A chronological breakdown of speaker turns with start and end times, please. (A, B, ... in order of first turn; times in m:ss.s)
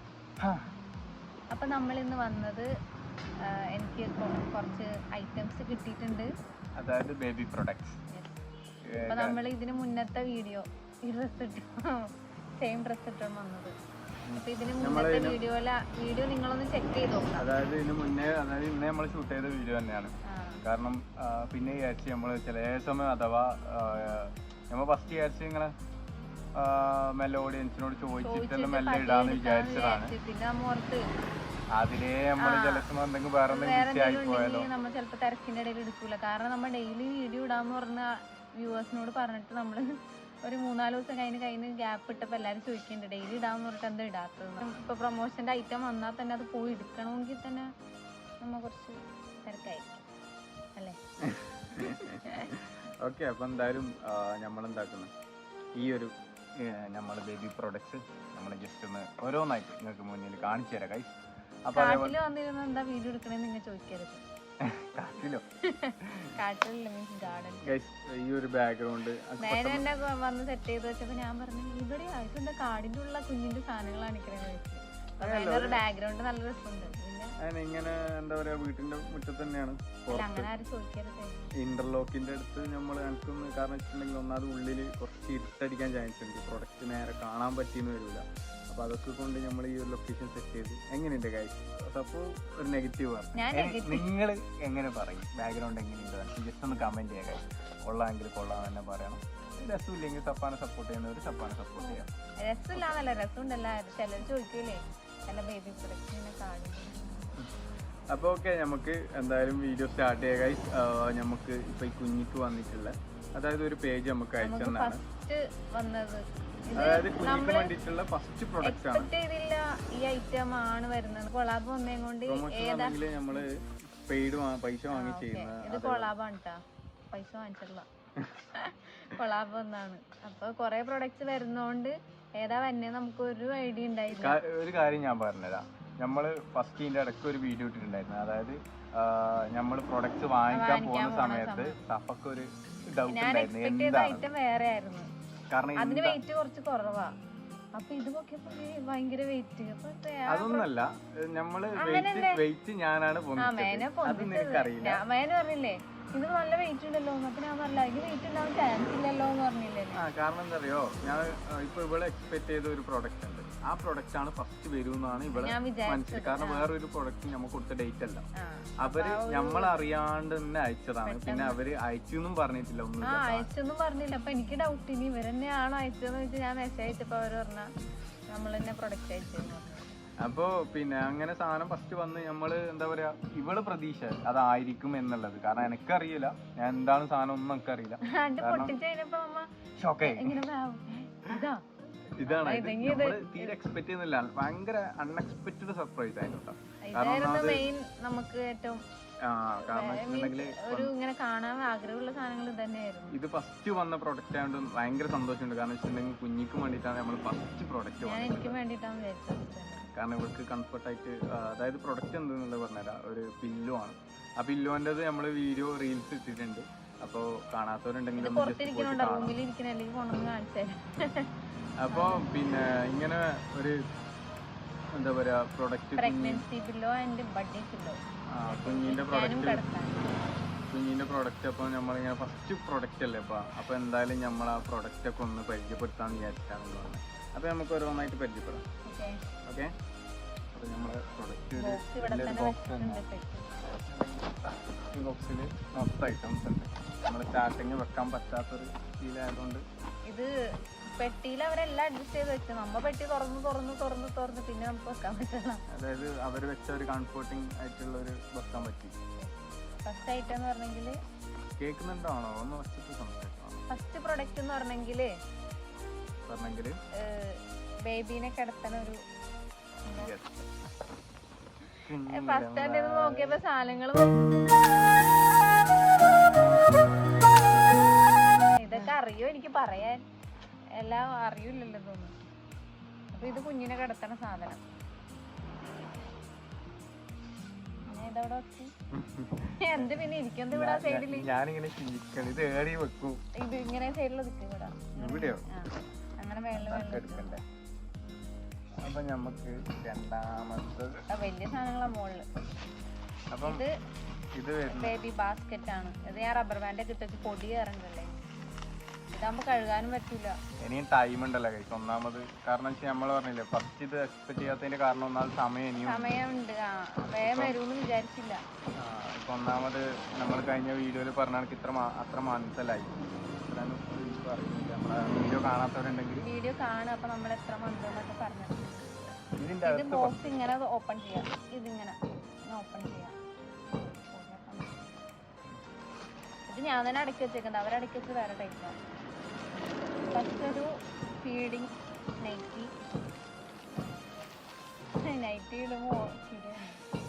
0:00.4-0:00.7 A
0:01.5-0:02.7 B
0:03.7-0:06.3 B
0:06.8-0:08.0 A
0:08.1-0:08.4 B
0:08.9-0:09.4 A
0:09.0-0:12.0 B
0:12.6-0:13.7 B
0:14.3-0:15.4 A
0:14.4-0:17.6 B
0:17.4-0:25.7 A
0:20.3-0:20.6 B
0:26.6-0:30.2 A
0:28.2-0:31.0 B
0:31.7-0:34.7 A
0:32.4-0:32.9 B
0:33.5-0:39.8 B
0:40.4-0:47.7 B
0:48.4-0:50.1 B
0:51.2-0:55.1 A
0:51.8-0:52.5 B
0:55.8-1:02.2 A
1:01.8-1:04.2 B
1:04.6-1:05.4 A
1:05.7-1:07.8 B
1:06.0-1:06.3 A
1:07.6-1:09.9 A
1:09.4-1:17.3 B
1:15.2-1:15.8 A
1:17.4-1:20.5 A
1:20.1-1:21.4 B
1:21.6-1:42.1 A
1:33.4-1:34.1 B
1:41.8-1:47.3 B
1:48.1-1:55.0 A
1:54.4-1:57.7 B
1:56.7-1:59.1 A
1:58.6-2:03.4 B
2:02.3-2:03.5 A
2:04.1-2:06.1 A
2:04.9-2:06.6 B
2:07.1-2:07.9 B
2:08.5-2:14.4 B
2:14.1-2:24.3 A
2:20.5-2:21.8 B
2:23.1-2:25.1 B
2:25.5-2:26.2 A
2:25.8-2:27.1 B
2:27.8-2:30.7 B
2:30.3-2:35.0 A
2:31.8-2:32.4 B
2:33.4-2:40.0 B
2:39.9-2:48.3 A
2:45.3-2:46.7 B
2:48.4-2:49.8 B
2:48.8-2:53.5 A
2:51.0-2:51.6 B
2:53.0-2:57.7 B
2:58.3-2:59.9 B
3:00.2-3:08.8 A
3:08.1-3:09.5 B
3:09.8-3:10.4 A
3:10.0-3:11.6 B
3:12.2-3:17.7 A
3:12.2-3:13.5 B
3:16.8-3:18.8 B
3:19.2-3:20.9 A
3:19.6-3:23.2 B
3:23.1-3:28.6 A
3:28.0-3:29.9 B
3:29.9-3:39.4 A
3:38.2-3:41.3 B
3:41.8-3:43.8 A
3:41.9-3:42.3 B
3:44.9-3:46.4 A
3:46.0-3:50.1 B
3:48.4-3:49.6 A
3:50.7-3:58.6 A
3:58.9-3:59.2 B
3:59.4-3:59.7 A
4:00.5-4:03.0 A
4:01.6-4:03.5 B
4:03.7-4:09.6 A
4:11.0-4:15.6 B
4:15.7-4:19.0 A
4:19.2-4:21.0 B
4:21.6-4:23.6 A
4:23.7-4:25.1 B
4:26.3-4:26.8 A
4:27.0-4:29.0 B
4:29.9-4:30.1 B
4:30.0-4:30.5 A
4:31.8-4:33.4 A
4:32.0-4:34.4 B
4:38.6-4:40.0 B
4:40.8-4:42.1 B
4:43.1-4:44.6 B
4:47.8-4:48.7 B
4:48.9-4:53.2 A
4:49.6-4:51.3 B
4:53.4-4:57.3 B
4:55.0-4:55.5 A
4:56.6-4:57.4 A
4:58.8-5:01.0 A
5:01.1-5:02.2 B
5:03.3-5:03.6 A
5:03.4-5:03.7 B
5:04.4-5:05.0 A
5:04.7-5:08.2 B
5:09.1-5:10.4 B
5:10.6-5:16.2 A
5:15.8-5:18.4 B
5:17.2-5:17.6 A
5:18.8-5:26.3 A
5:26.2-5:33.2 B
5:29.4-5:30.4 A
5:34.1-5:34.8 B
5:36.5-5:38.8 B
5:40.1-5:40.7 B
5:41.2-5:41.7 B
5:42.2-5:42.7 B
5:45.0-5:46.8 B